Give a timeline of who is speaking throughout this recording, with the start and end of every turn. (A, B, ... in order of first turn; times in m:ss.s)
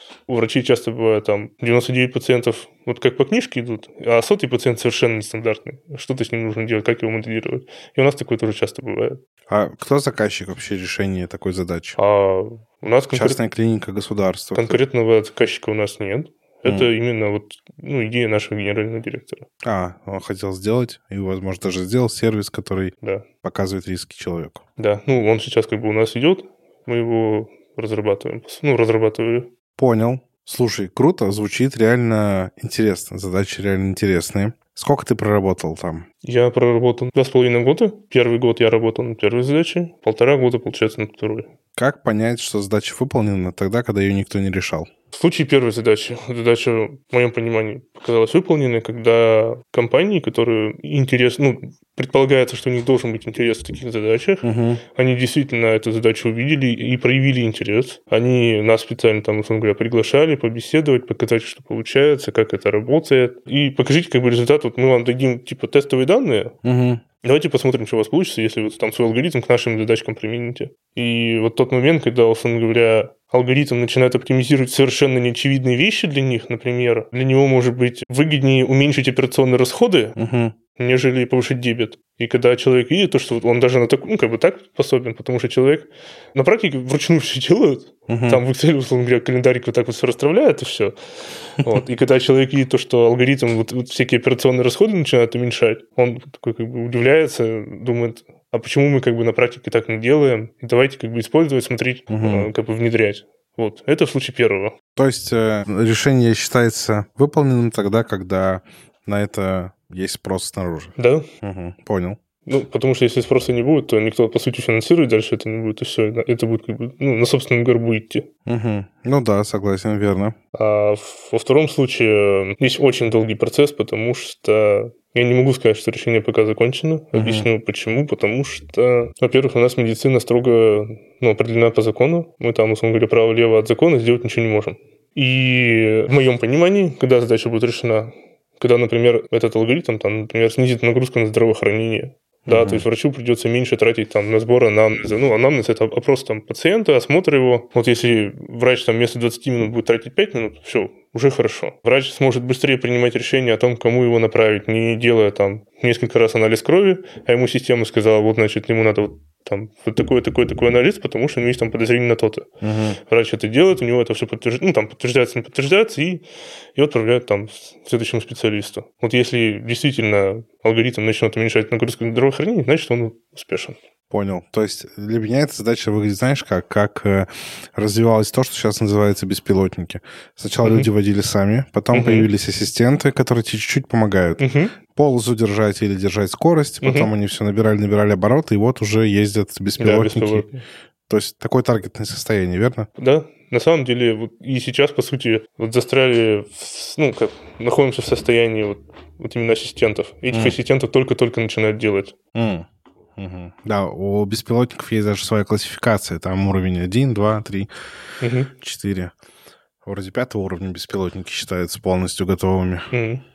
0:00.3-0:09.2 A
0:09.5-0:12.0 B
0:12.0-0:13.4 A
0:13.1-0:14.8 B
0:14.5-0:19.4 A
0:19.6-0:24.6 B
0:24.8-0:29.5 A
0:29.8-0:36.0 B
0:36.2-0:41.5 A
0:41.8-0:44.9 B
0:45.1-1:06.5 A
0:54.4-0:54.8 B
1:06.6-1:07.0 B
1:07.2-1:20.2 A
1:20.2-1:20.5 B
1:20.8-1:30.9 A
1:28.1-1:28.4 B
1:31.5-1:44.7 A
1:42.1-1:42.5 B
1:45.0-1:52.2 B
1:51.0-1:51.3 A
1:52.4-1:58.2 A
1:58.4-2:00.3 B
2:00.5-2:42.5 A
2:07.1-2:07.5 B
2:22.5-2:22.8 B
2:42.6-2:43.0 B
2:43.0-2:46.2 A
2:46.8-2:53.8 A
2:54.1-3:10.5 B
3:00.6-3:00.9 A
3:01.9-3:02.3 A
3:04.4-3:04.7 A
3:06.8-3:07.1 A
3:09.8-3:10.6 A
3:11.1-3:12.9 B
3:13.0-3:22.1 A
3:22.3-3:22.6 B
3:23.2-3:27.7 B
3:28.2-3:28.5 A
3:28.5-3:29.1 B
3:29.8-3:32.9 B
3:32.9-3:33.2 A